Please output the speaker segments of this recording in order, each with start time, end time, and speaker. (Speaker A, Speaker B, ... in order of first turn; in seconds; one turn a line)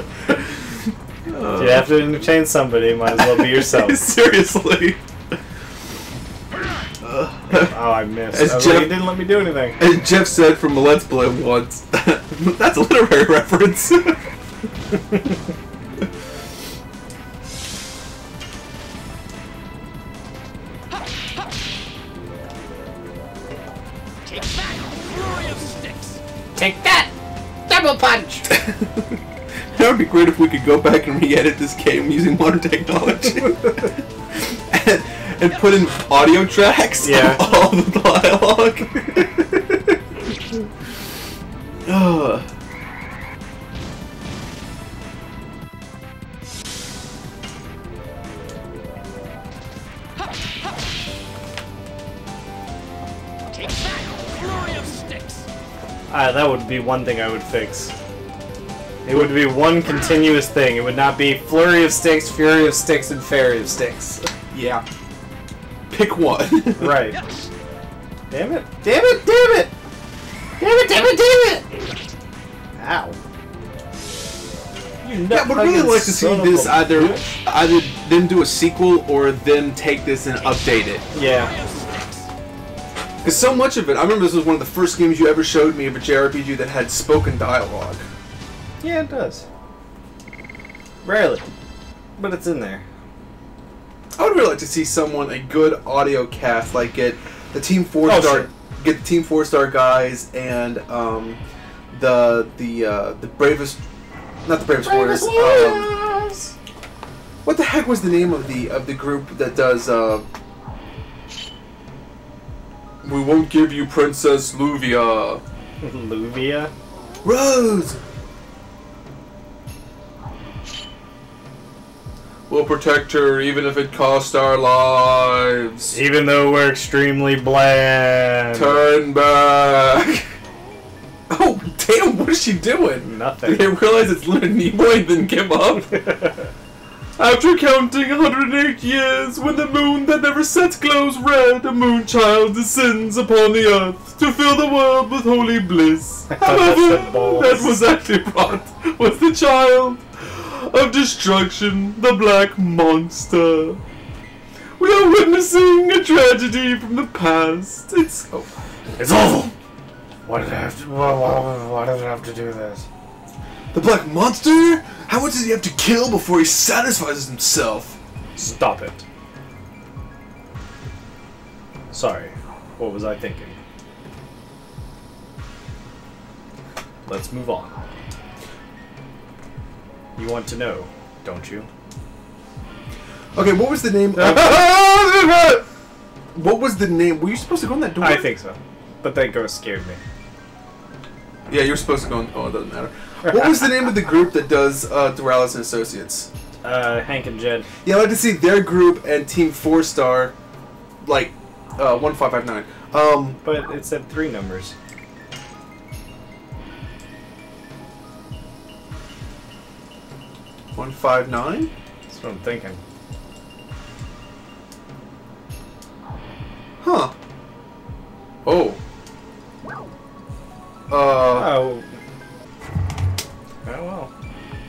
Speaker A: 0.3-2.2
Speaker B: 1.6-4.0
Speaker A: 3.1-5.0
Speaker A: 7.0-9.2
Speaker B: 7.5-9.8
Speaker A: 9.8-14.2
Speaker C: 24.2-26.2
Speaker B: 26.6-27.1
Speaker B: 27.7-28.5
Speaker A: 28.5-29.2
Speaker A: 29.7-39.3
Speaker B: 37.0-37.4
Speaker A: 41.9-42.5
Speaker C: 53.5-55.5
Speaker B: 56.1-57.9
Speaker B: 59.0-64.3
Speaker A: 64.5-64.8
Speaker A: 65.9-67.1
Speaker B: 66.8-67.2
Speaker B: 68.3-69.7
Speaker B: 70.6-71.7
Speaker B: 72.8-73.2
Speaker B: 75.0-77.4
Speaker A: 75.3-81.0
Speaker C: 81.1-82.3
Speaker B: 81.1-81.5
Speaker A: 83.2-88.0
Speaker B: 88.8-89.5
Speaker B: 91.0-91.5
Speaker B: 92.2-92.8
Speaker A: 94.2-103.8
Speaker B: 98.0-98.5
Speaker A: 104.5-106.0
Speaker B: 104.8-106.5
Speaker A: 107.5-110.3
Speaker A: 113.0-115.4
Speaker B: 115.8-116.7
Speaker A: 117.2-118.0
Speaker A: 122.5-126.0
Speaker B: 125.9-128.9
Speaker A: 128.5-130.3
Speaker A: 131.3-136.1
Speaker B: 133.0-133.7
Speaker B: 135.9-136.5
Speaker A: 137.2-153.8
Speaker B: 146.3-147.8
Speaker A: 154.8-158.6
Speaker B: 159.0-159.5
Speaker B: 160.3-162.9
Speaker A: 163.7-168.0
Speaker B: 168.4-169.0
Speaker B: 171.9-173.6
Speaker B: 177.1-177.7
Speaker B: 180.2-181.7
Speaker A: 183.4-185.7
Speaker B: 184.1-184.7
Speaker A: 186.3-188.3
Speaker B: 188.0-190.0
Speaker A: 191.5-196.3
Speaker B: 193.3-193.6
Speaker B: 196.6-197.7
Speaker A: 197.8-200.3
Speaker A: 201.0-203.4
Speaker B: 203.4-204.8
Speaker A: 210.8-211.7
Speaker B: 212.1-212.8
Speaker A: 216.8-217.1
Speaker A: 218.4-218.8
Speaker A: 220.9-221.7
Speaker B: 221.3-221.9
Speaker B: 223.7-224.1